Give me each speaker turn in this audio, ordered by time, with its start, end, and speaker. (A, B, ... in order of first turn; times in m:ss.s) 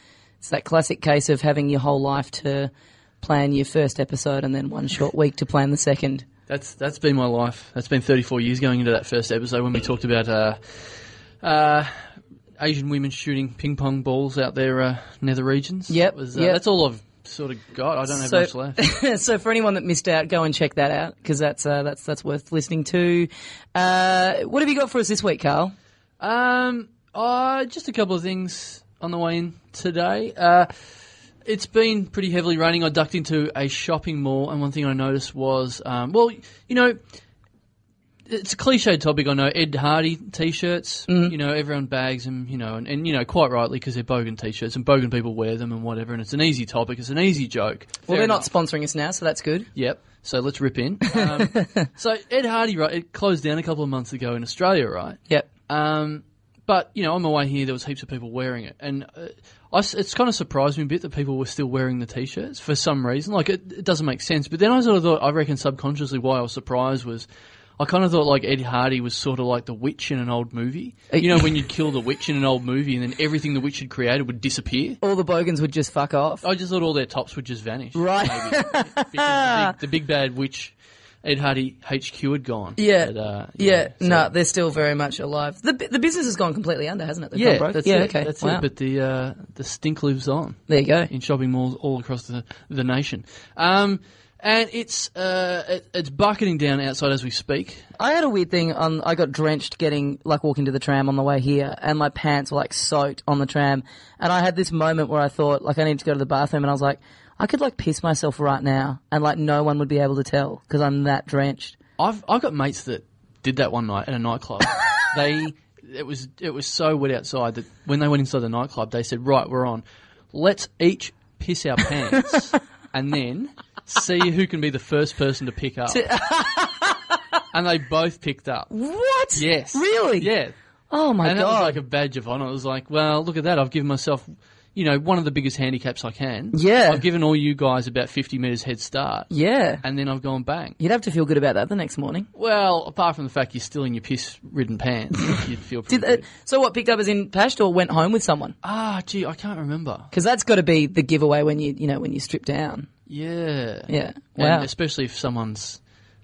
0:00.4-0:06.2 A
0:06.5-0:10.6 B
0:11.4-0:12.1 B
0:12.6-0:18.8 B
0:15.9-0:16.6 A
0:18.1-0:25.7 A
0:26.2-0:30.7 B
0:31.4-0:37.0 B
0:38.3-0:48.5 B
0:41.1-0:41.3 A
0:48.1-0:49.7 A
0:49.8-1:07.2 B
0:51.2-0:51.8 A
1:07.8-1:15.0 B
1:11.1-1:11.4 A
1:15.0-1:16.4 A
1:16.4-1:24.3 B
1:17.9-1:19.8 A
1:22.8-1:28.6 A
1:27.3-1:37.8 B
1:30.7-1:31.1 A
1:38.0-1:51.7 A
1:52.0-2:06.0 B
2:05.9-2:07.0 A
2:07.5-2:08.7 B
2:08.7-2:10.3 A
2:09.3-2:10.5 B
2:10.9-2:11.8 A
2:11.2-2:20.8 B
2:16.5-2:17.0 A
2:19.3-2:19.8 A
2:20.8-2:22.2 A
2:22.4-2:26.2 B
2:25.9-2:28.6 A
2:28.6-2:30.1 B
2:30.1-2:32.9 A
2:33.1-2:35.8 B
2:33.9-2:34.7 A